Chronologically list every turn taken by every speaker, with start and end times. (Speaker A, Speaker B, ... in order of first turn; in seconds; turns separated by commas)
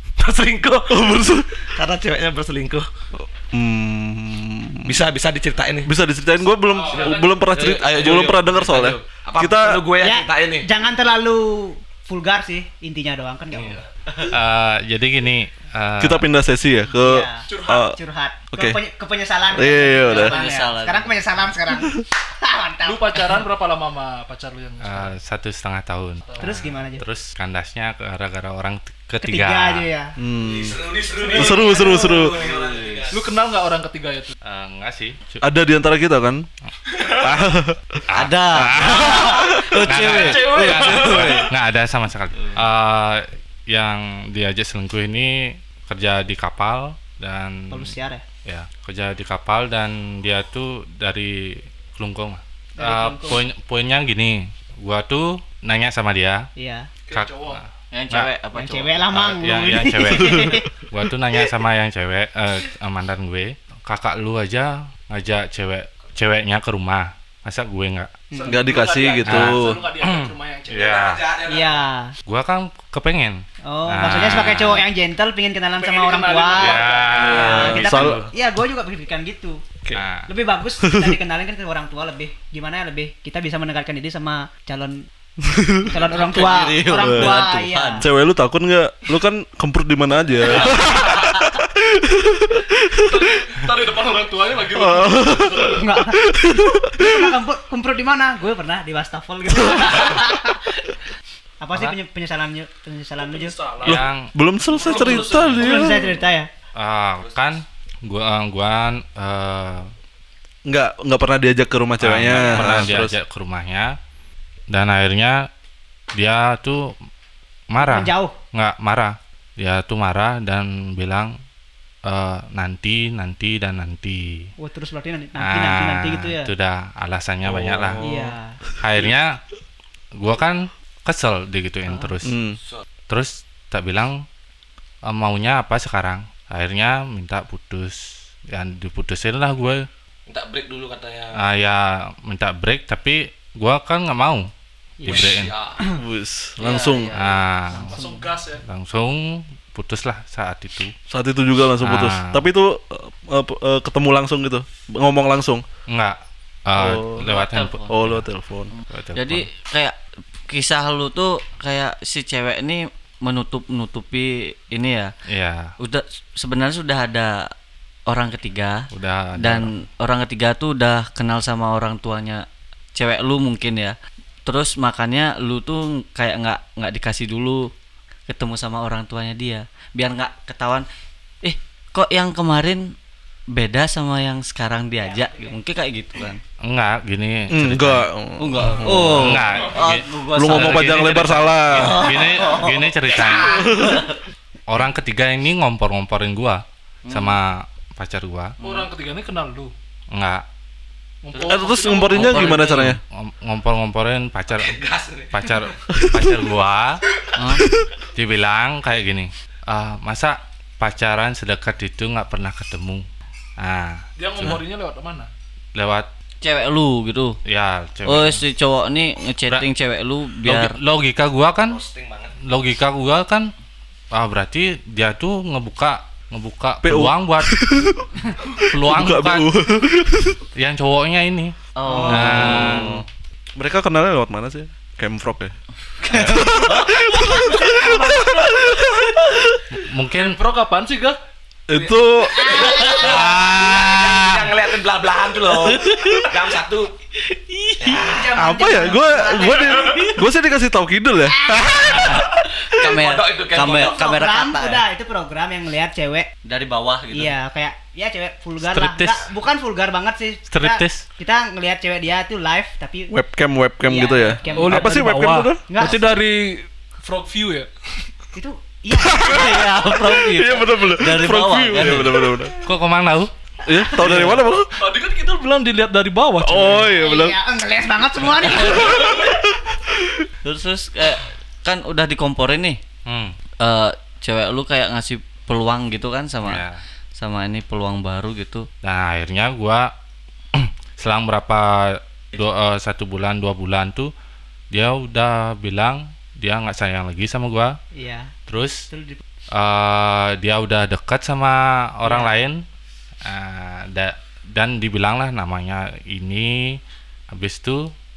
Speaker A: 0.2-1.2, Speaker B: 0.9-1.6, Speaker A: 1.7-2.9, Speaker B: 3.1-5.0, Speaker A: 4.8-5.9, Speaker B: 5.8-9.8, Speaker C: 6.7-7.7, Speaker A: 7.5-10.7, Speaker C: 8.7-9.0, Speaker D: 10.0-13.8, Speaker E: 14.3-16.3, Speaker B: 16.0-17.9, Speaker D: 16.9-23.4, Speaker C: 17.5-17.8, Speaker B: 18.5-18.8, Speaker B: 19.5-20.4, Speaker F: 20.1-21.1, Speaker C: 22.8-25.1, Speaker E: 24.8-29.9, Speaker C: 26.2-26.6, Speaker D: 26.4-27.0, Speaker D: 29.2-30.1, Speaker B: 30.2-32.5, Speaker A: 30.4-33.3, Speaker D: 31.2-32.1, Speaker F: 32.5-33.0, Speaker C: 33.1-34.3, Speaker E: 34.4-35.4, Speaker B: 35.4-36.5, Speaker B: 37.0-38.0, Speaker E: 38.1-47.9, Speaker F: 38.1-41.5, Speaker B: 38.5-39.6, Speaker C: 40.0-41.4, Speaker D: 47.7-48.2, Speaker E: 48.5-56.5, Speaker D: 52.8-53.4, Speaker D: 56.5-56.9, Speaker C: 57.1-57.6, Speaker E: 57.1-58.3, Speaker F: 57.9-59.3, Speaker D: 58.5-60.7, Speaker E: 59.1-68.1, Speaker D: 68.3-68.6, Speaker C: 68.3-71.0, Speaker B: 68.5-69.8, Speaker E: 69.2-71.4, Speaker A: 70.9-71.7, Speaker D: 71.4-72.1, Speaker E: 72.2-74.9, Speaker D: 73.6-79.6, Speaker C: 75.8-77.7, Speaker E: 76.5-78.3, Speaker B: 77.2-78.3, Speaker E: 79.9-80.3, Speaker D: 80.3-85.0, Speaker B: 80.8-81.2, Speaker B: 85.5-85.9, Speaker D: 85.8-88.0, Speaker C: 86.1-86.7, Speaker F: 86.1-88.1, Speaker B: 87.0-87.4, Speaker B: 88.0-93.3, Speaker C: 90.5-91.4, Speaker C: 93.0-95.7, Speaker B: 94.7-97.3, Speaker D: 95.6-96.3, Speaker D: 96.9-100.6, Speaker D: 101.6-103.6, Speaker C: 103.2-104.0, Speaker E: 103.8-104.3, Speaker B: 103.8-106.1, Speaker C: 104.7-105.7, Speaker E: 105.0-105.6, Speaker D: 105.5-106.5, Speaker E: 106.8-109.9, Speaker B: 110.7-113.2, Speaker E: 112.0-113.9, Speaker D: 112.3-112.7, Speaker E: 114.7-115.5, Speaker E: 116.1-116.9, Speaker E: 117.7-121.3, Speaker D: 117.8-118.3, Speaker E: 122.0-124.5, Speaker D: 124.6-126.5, Speaker E: 125.4-128.2, Speaker B: 127.4-128.3, Speaker D: 128.0-128.6, Speaker E: 128.8-129.4, Speaker E: 130.2-132.4, Speaker B: 132.2-132.6, Speaker E: 133.1-134.2, Speaker E: 135.0-139.9, Speaker A: 140.3-141.4, Speaker E: 141.3-144.4, Speaker D: 145.0-146.0, Speaker E: 145.0-145.6, Speaker A: 145.1-145.8, Speaker B: 145.8-147.2, Speaker F: 146.6-147.4, Speaker E: 147.1-148.0, Speaker D: 147.7-148.3, Speaker C: 147.8-148.6, Speaker E: 148.6-150.9, Speaker B: 151.1-155.6, Speaker E: 151.8-152.4, Speaker E: 155.9-158.2, Speaker B: 156.7-157.3, Speaker F: 157.2-157.9, Speaker B: 157.9-158.7, Speaker E: 158.9-159.5, Speaker F: 159.1-159.9, Speaker F: 160.5-165.1, Speaker E: 165.3-165.7, Speaker F: 165.8-167.5, Speaker F: 168.1-172.4, Speaker E: 168.9-169.7, Speaker F: 172.9-177.7, Speaker F: 178.3-180.8, Speaker F: 181.4-182.9, Speaker F: 183.5-186.4, Speaker D: 185.0-185.6, Speaker E: 186.6-188.1, Speaker B: 187.5-189.4, Speaker F: 188.4-191.1, Speaker E: 189.0-193.7, Speaker B: 190.3-192.2, Speaker F: 191.7-192.9, Speaker B: 193.4-194.0, Speaker F: 193.6-194.2, Speaker E: 194.7-198.6, Speaker F: 197.1-197.4, Speaker F: 198.6-198.9, Speaker C: 198.6-199.7, Speaker E: 200.1-200.4, Speaker C: 201.2-202.6, Speaker B: 201.4-203.0, Speaker F: 202.1-203.0, Speaker E: 203.1-207.0, Speaker A: 204.8-205.3, Speaker B: 205.9-206.2, Speaker F: 207.3-207.7, Speaker E: 208.1-213.0, Speaker E: 213.6-214.6, Speaker C: 214.2-215.3, Speaker E: 215.7-216.1, Speaker F: 216.4-217.4, Speaker E: 217.4-218.4, Speaker F: 218.1-220.7, Speaker E: 220.4-221.8, Speaker A: 221.6-222.3, Speaker E: 222.4-223.5, Speaker E: 224.1-227.6, Speaker B: 226.8-230.4, Speaker E: 228.7-229.5, Speaker E: 230.6-233.0, Speaker F: 231.7-233.0, Speaker D: 231.8-232.1, Speaker B: 232.1-235.5, Speaker F: 236.1-237.7, Speaker E: 236.1-236.5, Speaker B: 236.1-239.6, Speaker D: 237.5-238.2, Speaker E: 239.8-240.4, Speaker C: 240.1-241.2, Speaker B: 241.7-242.7, Speaker D: 242.3-243.1, Speaker F: 242.5-243.1, Speaker A: 242.6-246.9, Speaker E: 242.8-244.6, Speaker F: 245.5-246.4, Speaker F: 247.3-248.1, Speaker A: 247.8-248.3, Speaker D: 247.9-250.1, Speaker B: 248.3-252.3, Speaker F: 249.7-250.1, Speaker F: 251.8-254.8, Speaker A: 252.8-254.1, Speaker D: 253.8-256.3, Speaker F: 256.4-257.3, Speaker D: 257.1-263.1, Speaker E: 258.6-259.3, Speaker E: 260.5-261.0, Speaker B: 263.1-265.6, Speaker D: 263.8-265.0, Speaker C: 264.5-267.7, Speaker D: 265.7-266.2, Speaker D: 268.3-269.6, Speaker B: 269.0-272.6, Speaker F: 269.1-272.3, Speaker E: 272.6-273.3, Speaker B: 273.6-274.7, Speaker C: 274.0-277.0, Speaker B: 276.4-277.4, Speaker D: 276.8-279.3, Speaker B: 278.7-279.2, Speaker F: 280.4-282.8, Speaker E: 283.1-283.4, Speaker F: 283.6-288.7, Speaker E: 286.4-286.8, Speaker E: 288.8-289.9, Speaker E: 290.5-294.1, Speaker E: 294.7-297.8, Speaker D: 297.9-298.3, Speaker E: 298.5-298.9, Speaker D: 298.9-299.2, Speaker E: 299.5-302.6, Speaker D: 302.1-302.3, Speaker E: 303.2-306.8, Speaker E: 307.3-307.9